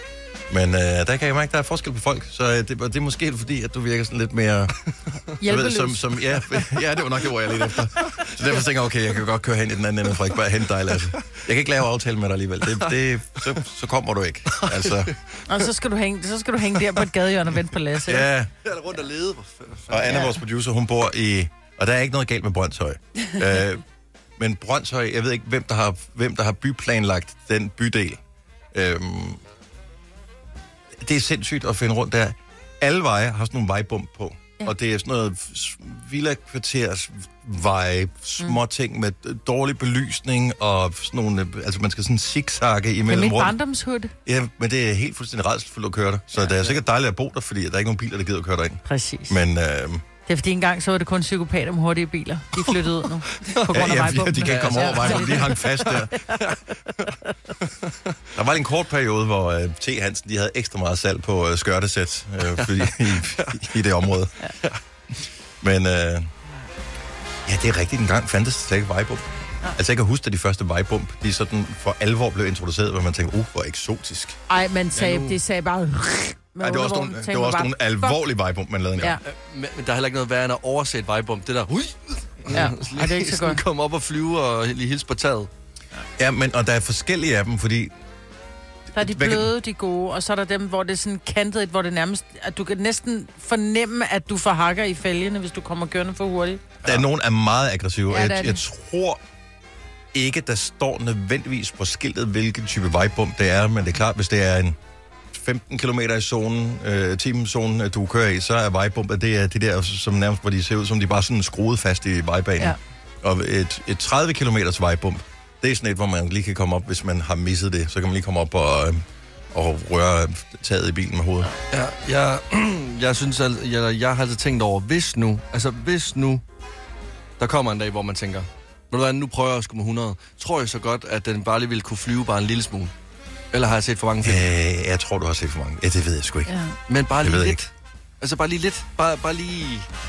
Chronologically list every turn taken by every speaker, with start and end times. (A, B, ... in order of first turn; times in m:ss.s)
0:00.5-0:04.8 A
0:05.4-0:06.6 B
0:05.4-0:15.1 A
0:14.5-0:15.1 C
0:15.5-0:18.3 B
0:18.0-0:18.5 A
0:18.6-0:20.2 C
0:19.9-0:23.8 A
0:24.4-0:28.2 A
0:28.7-0:29.4 A
0:31.0-0:43.6 A
0:43.1-0:44.1 B
0:44.2-0:50.0 A
0:48.8-0:49.4 B
0:50.2-0:56.4 B
0:53.4-0:53.7 C
0:53.7-0:56.2 A
0:54.2-0:57.1 C
0:58.3-1:04.3 A
1:02.6-1:03.6 C
1:05.6-1:06.3 A
1:07.4-1:14.4 A
1:14.5-1:18.2 B
1:14.9-1:15.4 C
1:16.6-1:19.2 A
1:19.2-1:25.5 C
1:22.5-1:23.6 B
1:26.2-1:27.9 A
1:28.9-1:29.5 A
1:28.9-1:36.6 B
1:36.8-1:39.2 A
1:38.1-1:38.6 B
1:40.1-1:44.8 A
1:45.3-2:01.5 A
2:01.7-2:06.4 C
2:07.4-2:12.9 C
2:13.5-2:14.5 C
2:14.2-2:16.5 A
2:16.5-2:16.7 B
2:16.9-2:19.9 C
2:17.2-2:17.6 A